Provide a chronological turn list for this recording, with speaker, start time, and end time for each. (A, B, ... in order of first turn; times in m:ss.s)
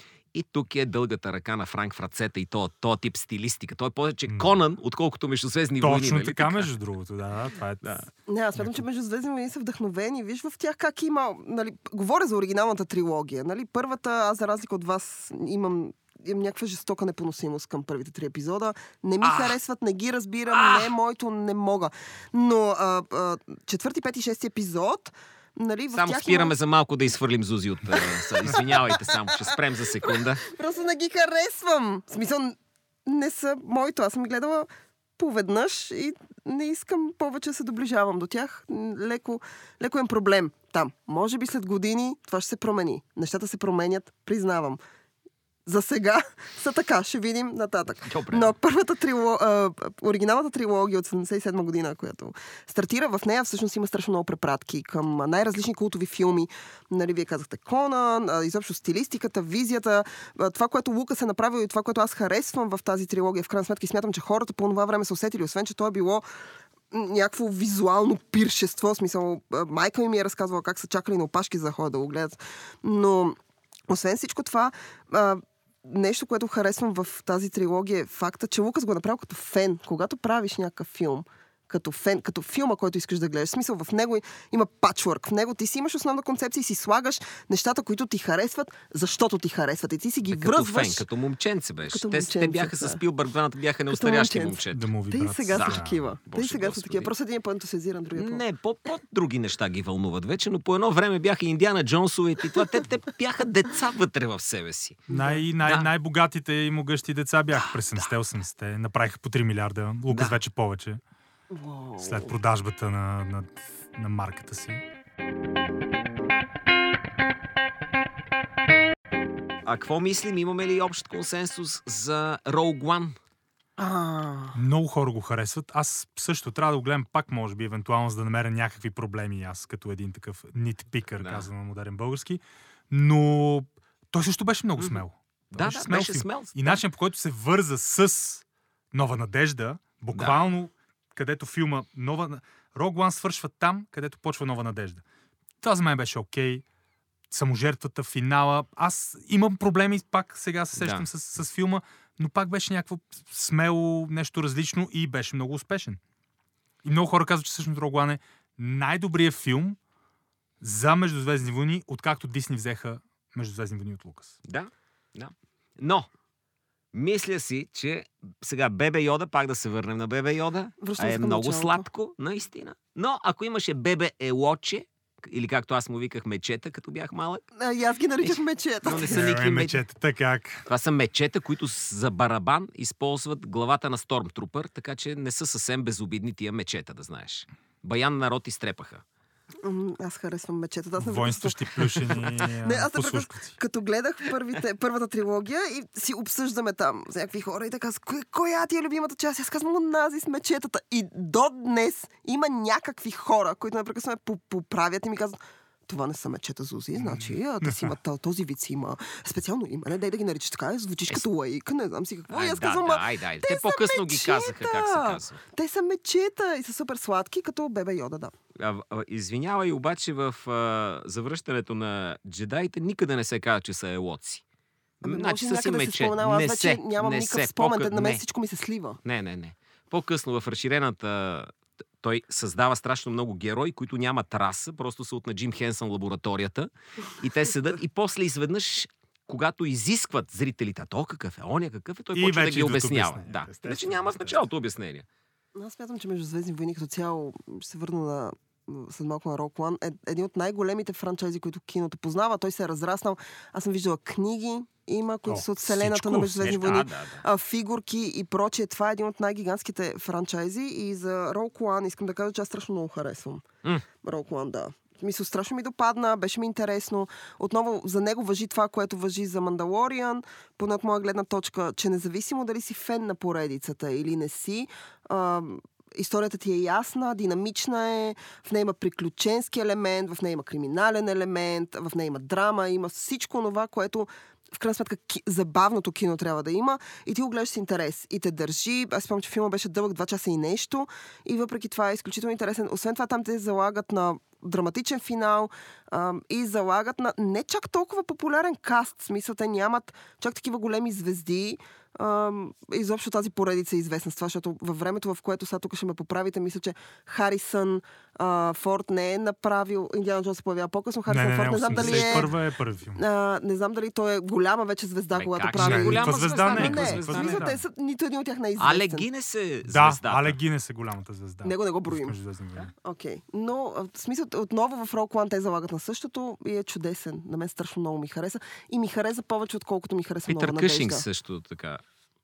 0:00.3-0:06.7 A
0:05.8-0:08.0 B
0:08.3-0:26.6 C
0:19.2-0:19.6 A
0:20.5-0:20.9 A
0:25.9-0:30.4 A
0:28.0-0:44.8 C
0:45.7-1:06.2 C
0:48.0-0:48.5 A
1:06.9-1:13.4 C
1:13.9-1:31.0 C
1:30.3-1:34.9 A
1:31.9-1:33.0 C
1:33.9-1:38.4 C
1:34.7-1:36.1 B
1:35.5-1:37.1 A
1:38.2-1:45.1 A
1:45.1-1:45.4 C
1:45.1-1:51.0 B
1:45.6-1:45.9 A
1:50.1-1:50.4 A
1:51.5-1:52.3 C
1:52.0-1:54.8 B
1:59.6-2:03.2 A
2:03.8-2:04.6 C
2:04.5-2:25.0 B
2:11.2-2:11.5 A
2:14.8-2:16.8 A
2:20.1-2:20.4 A
2:25.6-2:26.6 B
2:27.3-2:36.0 B
2:30.8-2:31.1 A
2:36.8-2:39.8 B
2:40.6-2:44.4 B
2:44.4-2:46.1 A
2:46.9-2:57.4 A
2:50.8-2:51.9 C
2:57.6-2:59.2 C
2:58.2-2:59.8 A
2:59.1-3:00.6 B
3:00.7-3:09.0 A
3:09.6-3:38.3 C
3:11.0-3:13.5 B
3:27.0-3:27.9 B
3:32.3-3:35.4 A
3:38.6-3:44.4 A
3:45.0-3:48.2 A
3:45.0-3:49.0 C
3:49.0-4:05.1 A
4:02.2-4:04.4 B
4:05.6-4:23.5 C
4:15.3-4:16.5 B
4:16.4-4:17.2 A
4:24.0-5:12.3 C
5:11.1-5:13.0 B
5:11.7-5:12.4 A
5:13.0-5:19.1 C
5:15.1-5:17.5 A
5:15.6-5:17.6 B
5:18.6-5:20.4 A
5:19.6-5:22.7 B
5:21.4-5:22.2 C
5:22.8-5:31.0 C
5:30.3-5:31.8 A